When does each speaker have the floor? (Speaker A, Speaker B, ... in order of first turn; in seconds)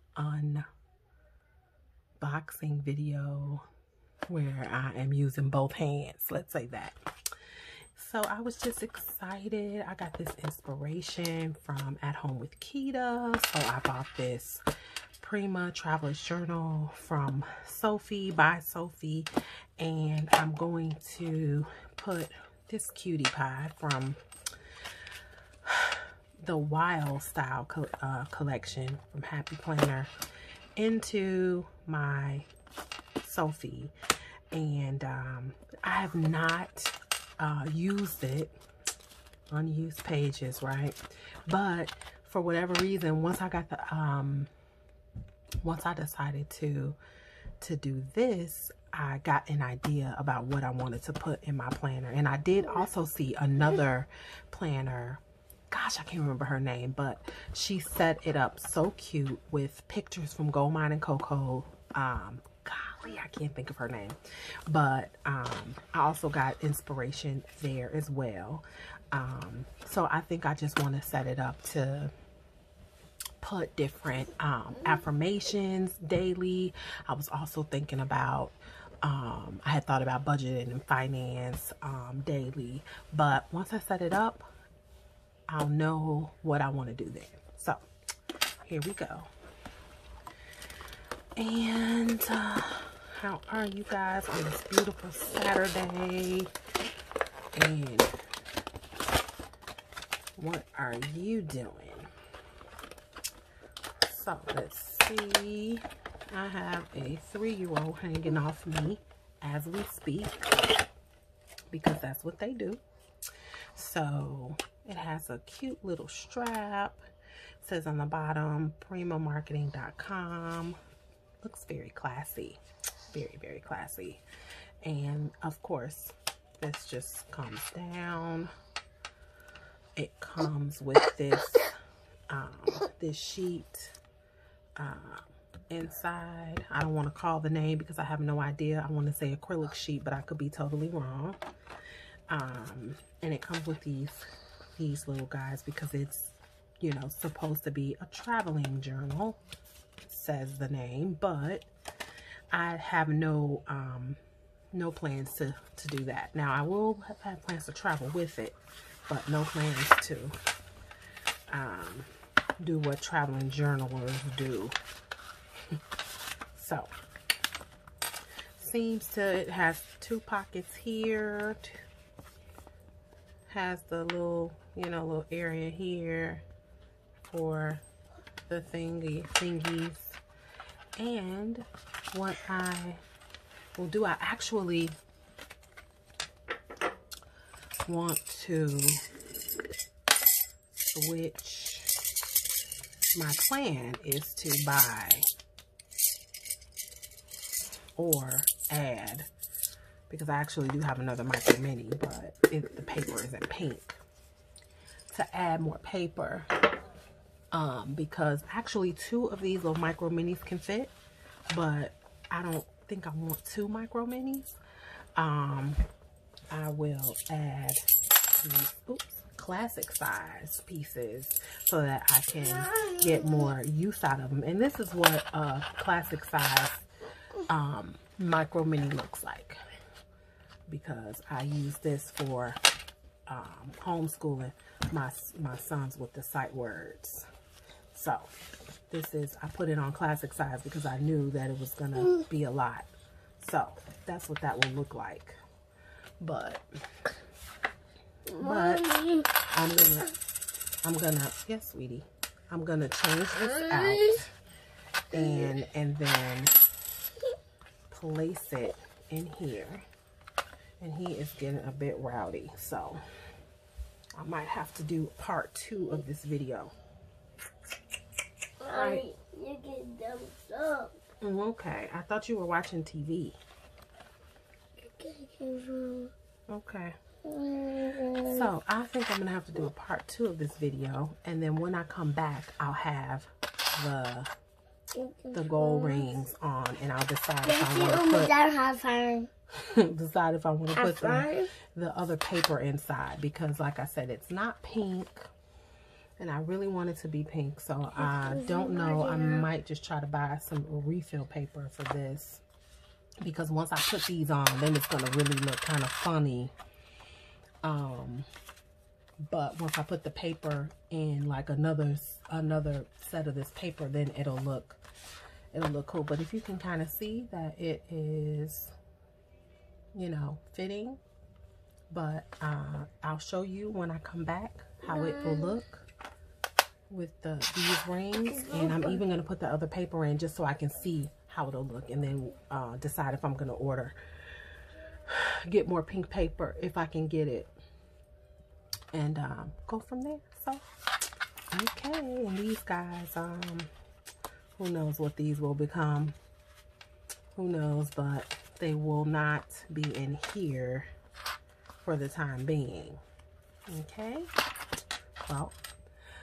Speaker A: 0.1-0.6, 2.2-3.6, 4.3-7.0, 7.9-14.6, 15.2-24.2, 25.6-30.1, 30.8-32.5, 33.2-33.9, 34.5-38.5, 39.5-44.5, 45.6-47.0, 47.6-72.1, 73.4-84.5, 85.5-87.8, 88.6-89.3, 91.3-96.5, 97.5-98.1, 100.3-102.1, 104.0-110.5, 111.7-112.8, 113.7-117.0, 117.6-120.8, 121.4-124.2, 124.8-128.5, 129.9-131.7, 132.3-134.0, 134.8-141.4, 142.3-144.2, 144.8-149.4, 150.1-151.7, 152.5-154.2, 154.7-158.6, 159.1-160.3, 161.5-162.1, 162.6-164.8, 166.5-166.9, 168.6-171.8, 173.5-176.4, 177.2-177.8, 178.5-180.2, 181.0-183.0, 183.8-185.0, 187.8-189.0, 190.8-191.9, 193.1-195.2, 198.0-199.3, 200.1-204.0, 205.1-206.5, 207.5-210.9, 211.5-214.5, 215.2-215.8, 216.5-217.8, 218.4-226.8, 227.4-229.6, 230.7-232.6, 233.3-237.2, 237.9-238.3, 238.9-242.9, 243.4-245.4, 246.2-247.1, 248.4-250.2, 250.8-254.3, 255.1-256.6, 257.9-259.8, 260.8-263.0, 264.1-266.7, 268.7-269.0, 271.2-273.4, 276.5-276.9, 278.2-284.3, 285.3-288.4, 289.6-295.3, 296.2-302.4, 303.2-306.5, 307.6-308.3, 309.3-314.8, 315.5-318.7, 319.9-321.0, 321.9-325.9, 326.9-333.9, 335.1-337.5, 338.9-340.6, 341.5-343.7, 344.6-346.1, 347.3-350.9, 351.8-353.0, 353.7-354.3, 355.2-355.6
Speaker B: 248.3-249.2, 268.6-270.9, 274.8-276.1, 277.2-278.5, 284.9-286.0, 287.4-289.3, 290.8-291.5, 298.1-299.5, 324.9-325.5, 328.4-328.9